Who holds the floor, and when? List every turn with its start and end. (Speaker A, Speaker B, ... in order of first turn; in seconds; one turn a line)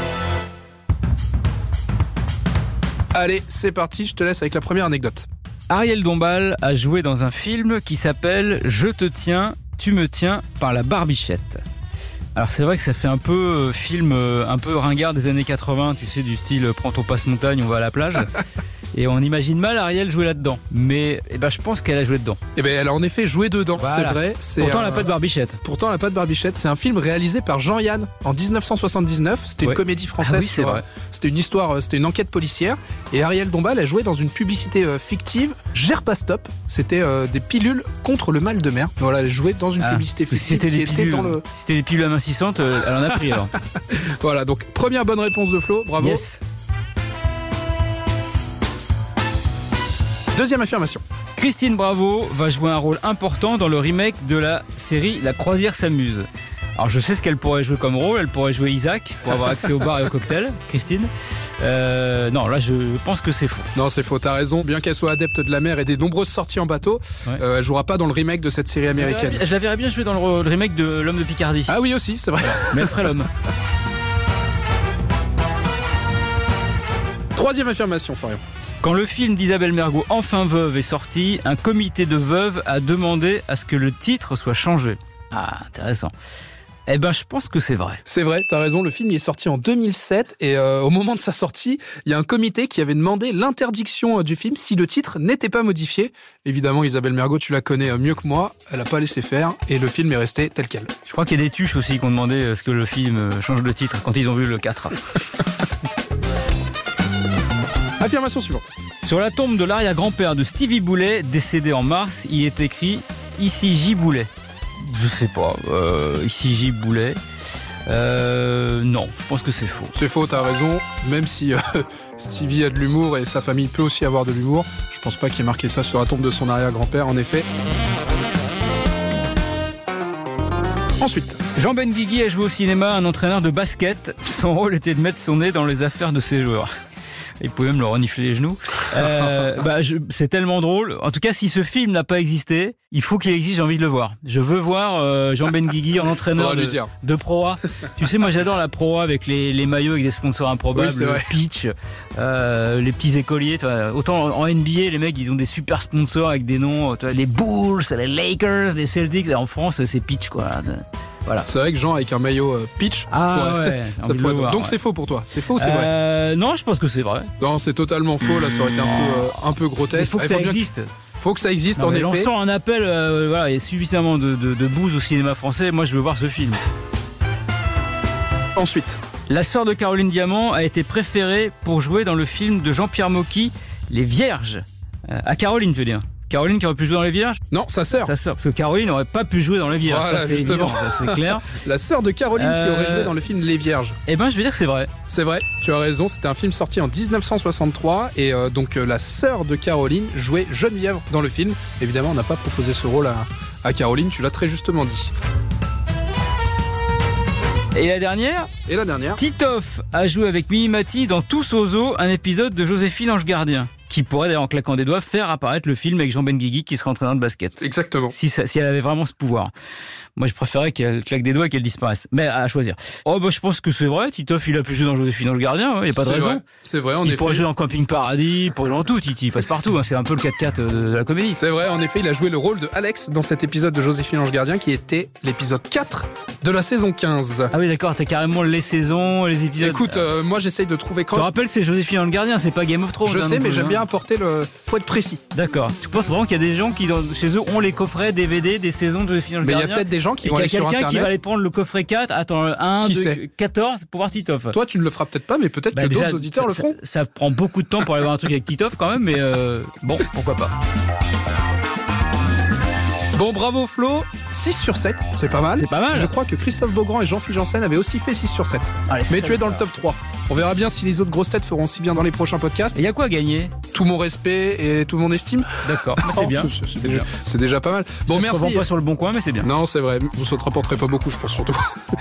Speaker A: 3.1-5.3
Speaker B: 5.7-11.6
Speaker B: 12.3-18.4
Speaker B: 18.9-22.4
Speaker A: 22.6-41.4
Speaker B: 23.8-25.6
Speaker B: 29.6-30.8
Speaker B: 39.8-43.5
Speaker A: 43.9-46.2
Speaker B: 46.0-46.4
Speaker A: 50.3-51.0
Speaker B: 51.4-63.7
Speaker A: 63.7-69.4
Speaker B: 68.9-71.7
Speaker A: 71.7-73.2
Speaker B: 72.4-73.3
Speaker A: 77.3-78.4
Speaker B: 78.8-86.1
Speaker B: 86.9-88.0
Speaker A: 88.0-100.9
Speaker B: 101.1-105.0
Speaker A: 108.0-108.7
Speaker B: 109.0-117.2
Speaker B: 117.9-119.9
Speaker A: 119.9-127.5
Speaker A: 131.0-131.4
Speaker B: 131.6-136.7
Speaker B: 137.4-161.5
Speaker A: 146.3-146.9
Speaker A: 150.7-151.3
Speaker A: 161.5-165.9
Speaker B: 163.1-164.8
Speaker B: 165.5-167.3
Speaker A: 167.4-170.6
Speaker B: 169.9-170.9
Speaker A: 171.2-172.3
Speaker B: 171.8-176.6
Speaker A: 178.6-179.0
Speaker B: 179.3-187.4
Speaker A: 187.5-188.1
Speaker B: 188.0-191.5
Speaker A: 189.8-193.9
Speaker B: 192.3-193.2
Speaker B: 194.1-194.9
Speaker A: 195.1-205.1
Speaker B: 207.7-208.5
Speaker A: 208.7-209.2
Speaker B: 209.2-219.5
Speaker A: 217.6-218.2
Speaker B: 220.2-226.4
Speaker A: 225.9-227.4
Speaker B: 227.0-231.4
Speaker A: 231.3-237.5
Speaker B: 237.5-240.1
Speaker A: 239.6-241.3
Speaker B: 241.1-243.8
Speaker A: 243.0-245.2
Speaker B: 245.3-254.6
Speaker A: 249.4-251.1
Speaker A: 252.8-253.2
Speaker A: 254.5-256.8
Speaker B: 255.7-260.5
Speaker A: 263.1-272.8
Speaker B: 265.5-266.1
Speaker B: 268.9-269.6
Speaker B: 272.7-273.5
Speaker A: 273.7-278.7
Speaker B: 275.6-277.1
Speaker B: 278.1-279.5
Speaker A: 279.4-281.6